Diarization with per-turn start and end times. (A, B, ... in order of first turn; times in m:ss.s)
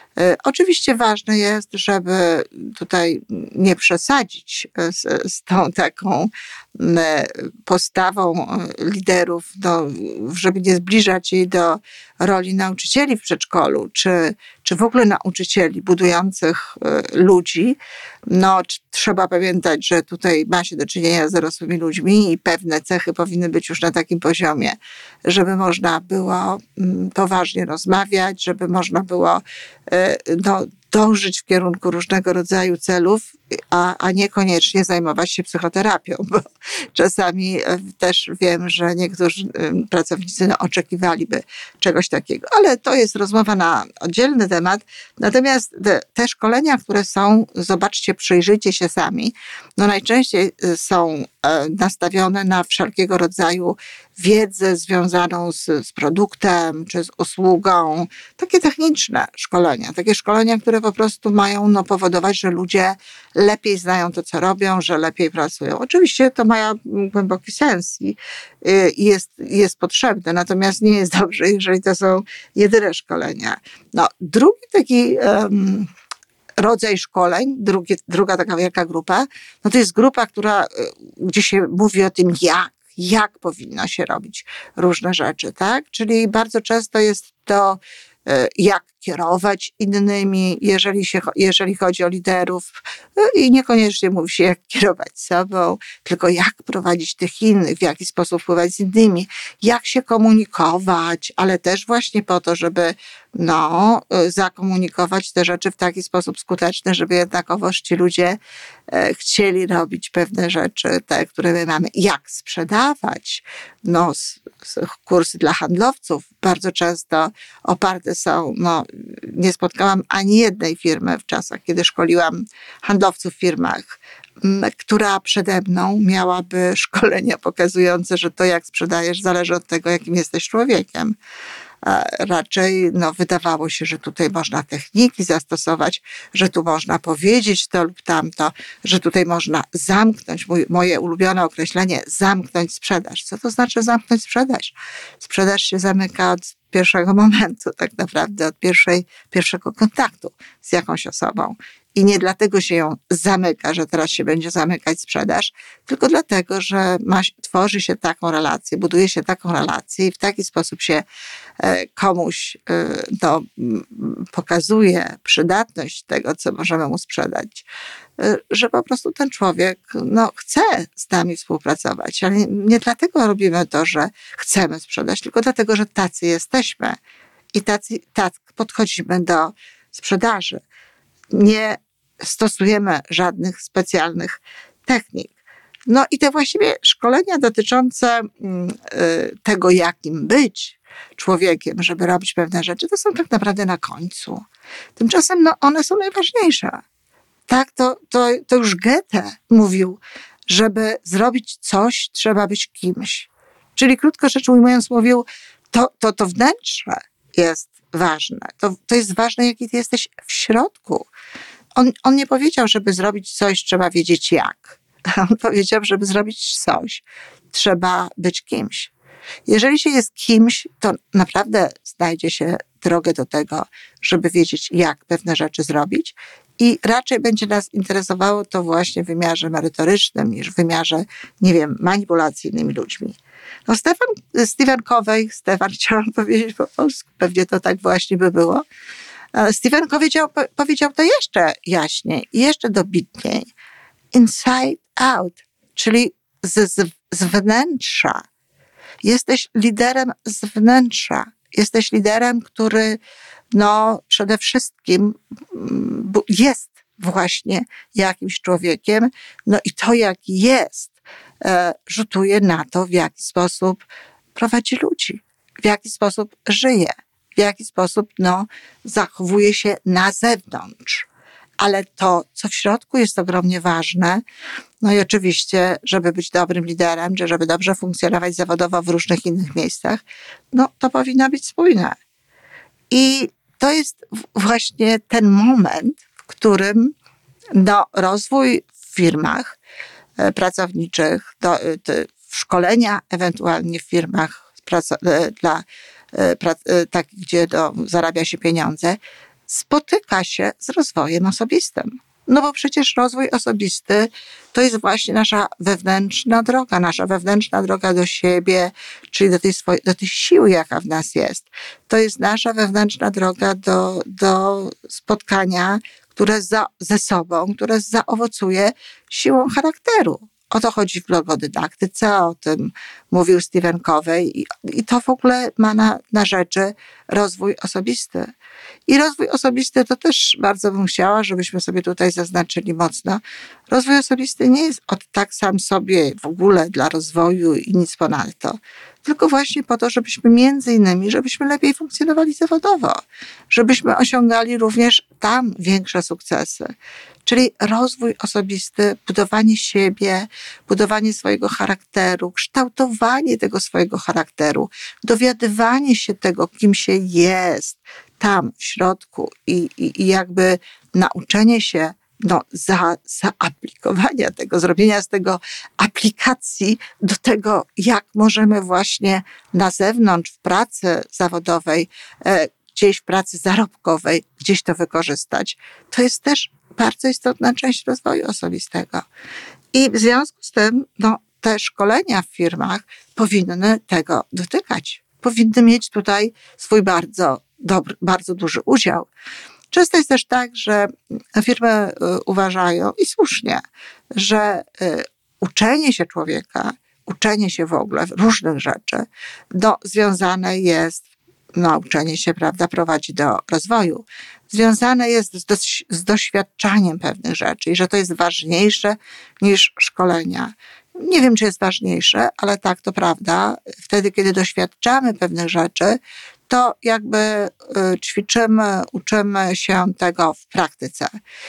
0:00.2-1:15.9 A
1:16.6-2:11.2 A
2:11.8-2:41.0 A
2:41.6-2:47.7 A
2:48.2-2:57.0 A
2:57.5-3:00.6 A
3:01.3-3:05.3 A
3:05.9-3:14.4 A
3:15.0-3:16.8 A
3:17.5-3:31.1 A
3:31.7-3:38.9 A
3:39.4-3:58.6 A
3:59.3-4:03.5 A
4:04.1-4:08.2 A
4:09.0-4:13.0 A
4:13.5-4:23.8 A
4:24.3-4:31.1 A
4:31.6-4:34.2 A
4:34.8-4:41.9 A
4:42.9-4:46.9 A
4:47.5-4:49.6 A
4:50.2-5:28.3 A
5:28.9-5:46.7 A
5:47.2-6:19.0 A
6:19.7-6:29.1 A
6:29.7-6:33.6 A
6:34.1-7:01.1 A